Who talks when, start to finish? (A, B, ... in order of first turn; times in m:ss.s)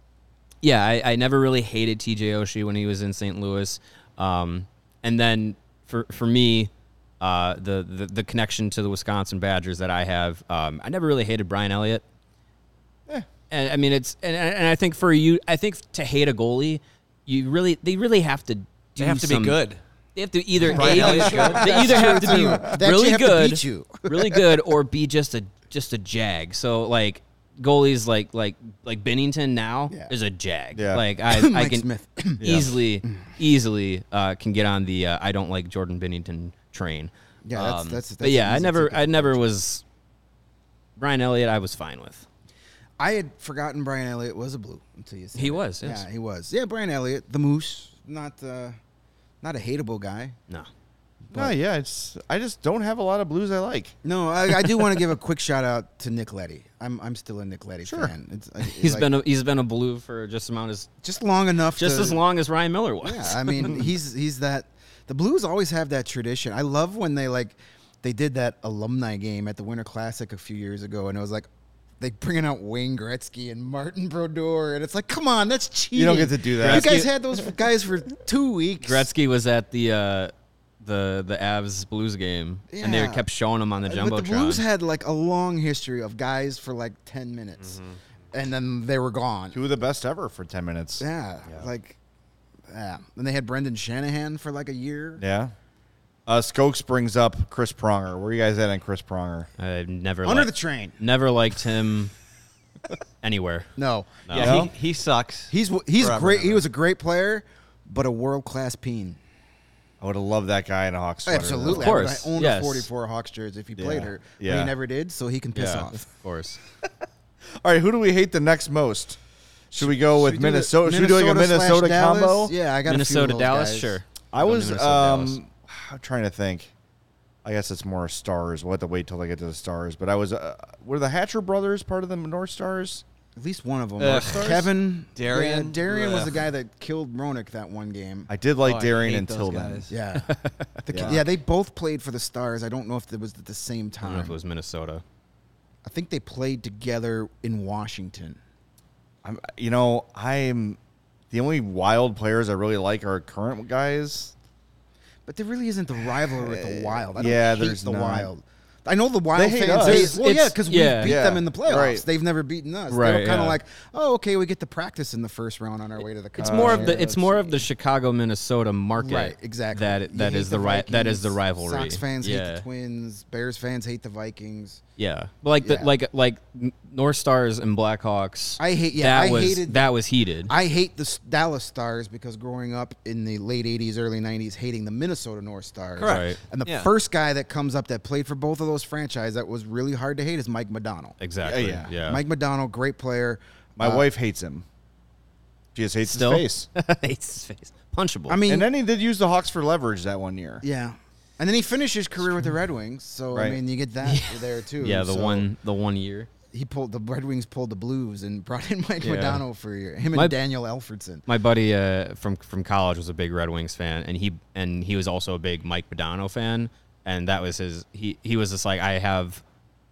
0:00.6-0:12.0 A
0:13.5-0:19.6 A
0:19.0-0:19.8 B
0:20.1-0:31.8 A
0:20.6-0:22.0 B
0:20.6-0:24.4 C
0:21.3-0:22.8 D
0:30.7-0:31.0 D
0:31.2-0:32.4 C
0:32.4-0:32.7 D
0:32.4-0:39.8 A
0:37.4-0:39.4 C
0:41.0-0:42.2 A
0:43.0-0:48.8 C
0:45.3-0:46.0 A
0:49.4-0:50.4 C
0:51.3-0:53.9 D
0:54.0-0:59.1 C
0:57.8-0:58.1 D
0:58.6-1:00.9 A
1:01.0-1:02.2 C
1:01.8-1:03.9 A
1:03.0-1:11.5 C
1:12.0-1:19.1 C
1:15.9-1:16.9 D
1:16.6-1:17.1 A
1:18.8-1:24.6 A
1:22.7-1:23.2 C
1:23.8-1:27.8 C
1:28.3-1:29.6 C
1:29.5-1:31.0 D
1:31.0-1:32.0 C
1:32.7-1:35.2 C
1:35.2-1:35.5 D
1:36.3-1:39.5 D
1:39.6-1:42.1 A
1:40.2-1:41.0 C
1:43.2-1:43.7 A
1:43.8-1:44.6 C
1:44.2-1:44.6 A
1:44.3-1:46.6 B
1:44.4-1:44.7 D
1:45.5-1:49.2 C
1:50.0-1:52.0 D
1:51.2-1:56.1 C
1:51.6-1:52.9 A
1:53.8-1:54.7 D
1:55.5-1:56.6 A
1:57.6-1:59.2 D
1:59.7-2:02.5 D
1:59.8-2:04.0 C
2:02.8-2:05.4 A
2:04.3-2:06.7 D
2:07.4-2:13.0 D
2:13.4-2:18.3 C
2:14.0-2:16.4 B
2:18.3-2:19.9 D
2:18.6-2:19.9 B
2:19.9-2:24.4 C
2:20.2-2:20.8 A
2:20.9-2:21.2 D
2:24.0-2:25.0 A
2:25.8-2:28.4 C
2:29.2-2:30.8 D
2:31.3-2:34.3 D
2:35.2-2:47.1 C
2:36.3-2:38.3 D
2:39.3-2:40.2 D
2:39.7-2:41.2 A
2:41.0-2:42.0 D
2:42.9-2:43.6 A
2:46.4-2:47.5 D
2:46.4-2:52.6 A
2:49.0-2:54.8 C
2:55.0-3:00.5 A
2:55.6-2:55.9 C
2:58.6-2:59.9 C
3:00.5-3:14.0 C
3:06.0-3:06.9 B
3:06.0-3:06.4 A
3:11.2-3:12.2 A
3:11.4-3:11.9 D
3:13.8-3:14.6 D
3:15.7-3:16.7 D
3:16.0-3:18.4 A
3:18.3-3:18.7 C
3:18.4-3:20.6 D
3:20.6-3:25.5 C
3:23.3-3:23.6 D
3:24.0-3:26.3 A
3:26.5-3:31.2 C
3:29.0-3:29.4 A
3:31.3-3:39.4 A